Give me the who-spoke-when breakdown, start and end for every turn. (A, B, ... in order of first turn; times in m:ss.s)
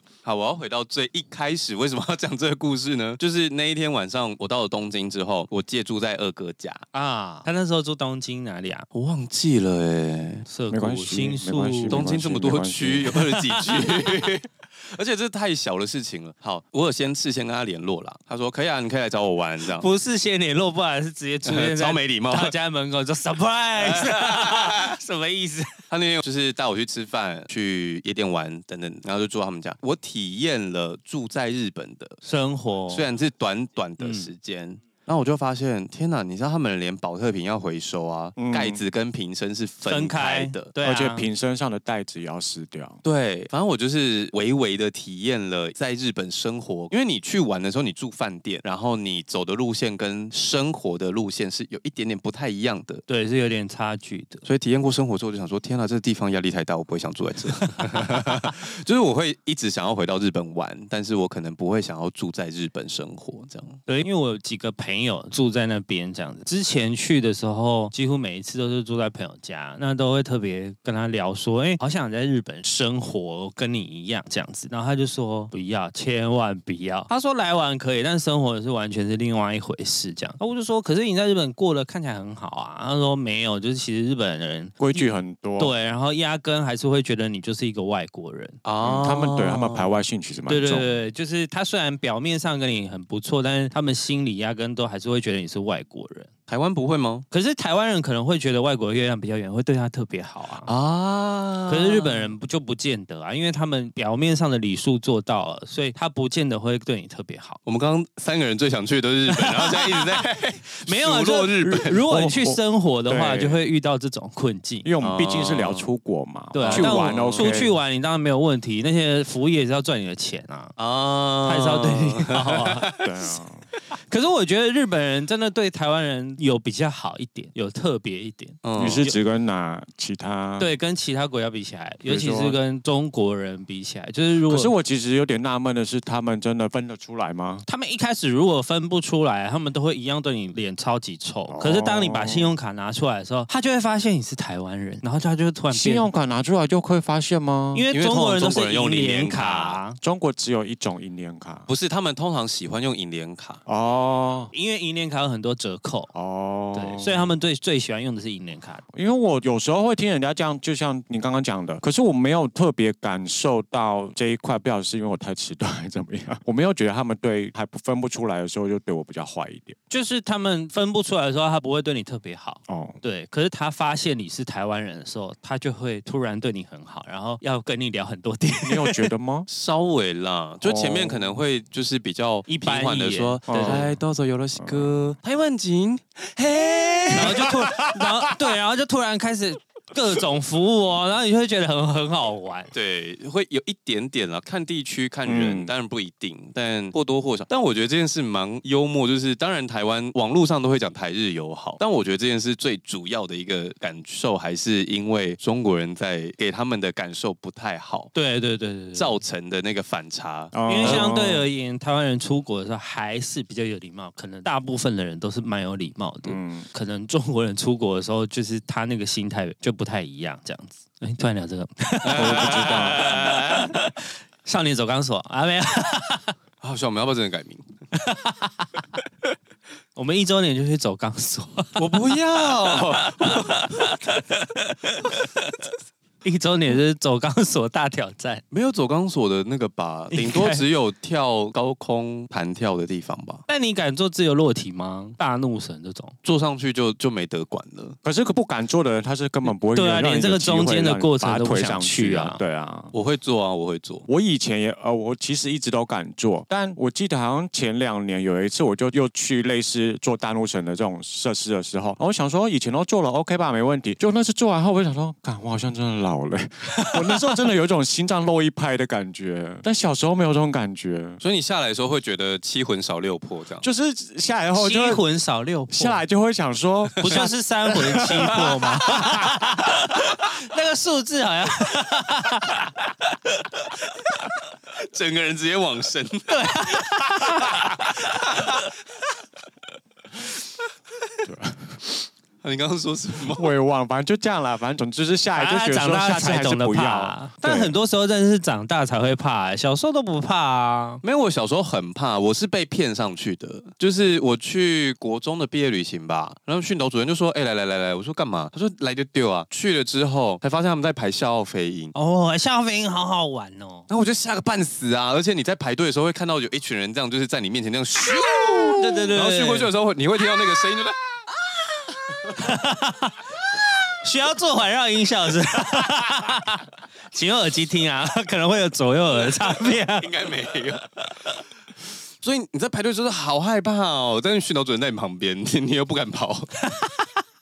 0:00.2-0:06.8 A
0:06.9-0:08.9 B
0:08.9-0:10.4 A
0:10.5-0:12.1 B
0:10.7-0:13.2 C
0:11.9-0:19.9 A
0:13.1-0:14.3 B
0:19.6-0:25.8 B
0:21.4-0:22.5 A
0:23.8-0:24.9 A
0:25.9-0:32.2 A
0:32.2-0:33.1 B
0:32.9-0:40.7 A
0:34.0-0:34.3 B
0:38.4-0:38.8 C
0:39.9-0:41.2 B
0:40.8-0:43.0 C
0:43.0-0:53.0 A
0:53.1-0:54.4 B
0:54.4-1:03.8 A
1:03.9-1:28.6 B
1:24.8-1:25.7 C
1:28.6-1:29.9 A
1:28.8-1:31.0 C
1:30.5-1:36.3 B
1:36.5-1:37.2 A
1:37.3-1:40.7 B
1:40.6-1:42.3 A
1:41.7-1:47.6 B
1:47.6-1:52.0 A
1:49.3-1:54.9 B
1:52.0-1:53.6 C
1:54.8-1:57.7 C
1:55.0-1:55.9 A
1:56.5-2:00.8 B
1:56.6-1:57.6 A
2:00.8-2:03.0 A
2:01.4-2:02.9 B
2:03.0-2:03.6 C
2:04.1-2:09.2 B
2:08.6-2:09.0 A
2:08.8-2:10.7 C
2:10.6-2:14.7 B
2:12.0-2:12.6 C
2:14.4-2:17.6 C
2:17.6-2:26.1 B
2:21.5-2:22.6 C
2:25.7-2:27.9 C
2:27.7-2:30.0 B
2:27.9-2:29.8 A
2:30.0-2:31.7 C
2:31.7-2:33.6 A
2:33.6-2:34.5 C
2:34.5-2:36.1 B
2:36.1-2:37.3 C
2:36.7-2:38.8 B
2:38.9-2:49.8 C
2:49.9-2:59.1 B
2:52.7-2:53.0 C
2:58.6-2:59.5 C
2:59.5-3:07.6 A
3:00.6-3:01.4 C
3:02.5-3:03.8 B
3:03.5-3:04.0 C
3:04.6-3:05.2 C
3:07.1-3:12.7 B
3:07.3-3:08.0 C
3:12.7-3:28.1 A
3:15.2-3:15.7 C
3:28.1-3:29.1 B
3:28.9-3:31.0 A
3:30.5-3:31.5 C
3:30.7-3:46.3 B
3:36.2-3:36.7 C
3:42.0-3:43.8 A
3:42.1-3:43.2 C
3:46.6-3:47.6 A
3:47.9-3:48.7 B
3:50.0-3:52.0 B
3:51.8-3:54.0 A
3:52.7-3:55.3 B
3:56.2-3:58.4 B
3:58.5-4:03.4 A
4:00.1-4:00.6 B
4:03.5-4:06.2 B
4:06.2-4:08.0 A
4:08.0-4:12.9 C
4:09.5-4:12.4 B
4:12.9-4:14.0 A
4:14.1-4:31.2 C
4:26.8-4:27.3 B
4:31.2-4:33.6 A
4:33.6-4:35.0 C
4:34.5-4:36.0 B
4:35.7-4:39.3 C
4:37.0-4:37.3 A
4:37.0-4:42.8 B
4:44.7-4:48.7 A
4:46.3-4:48.5 B
4:51.2-4:51.8 C
4:52.4-4:53.5 A
4:53.3-4:57.7 C
4:55.3-5:01.0 B
5:01.0-5:11.9 A
5:11.9-5:13.9 B
5:13.9-5:21.0 A
5:18.6-5:19.7 B
5:22.2-5:23.2 B
5:23.9-5:30.4 B
5:29.2-5:30.9 A
5:31.0-5:31.3 B
5:32.2-5:36.5 A
5:36.7-5:37.1 B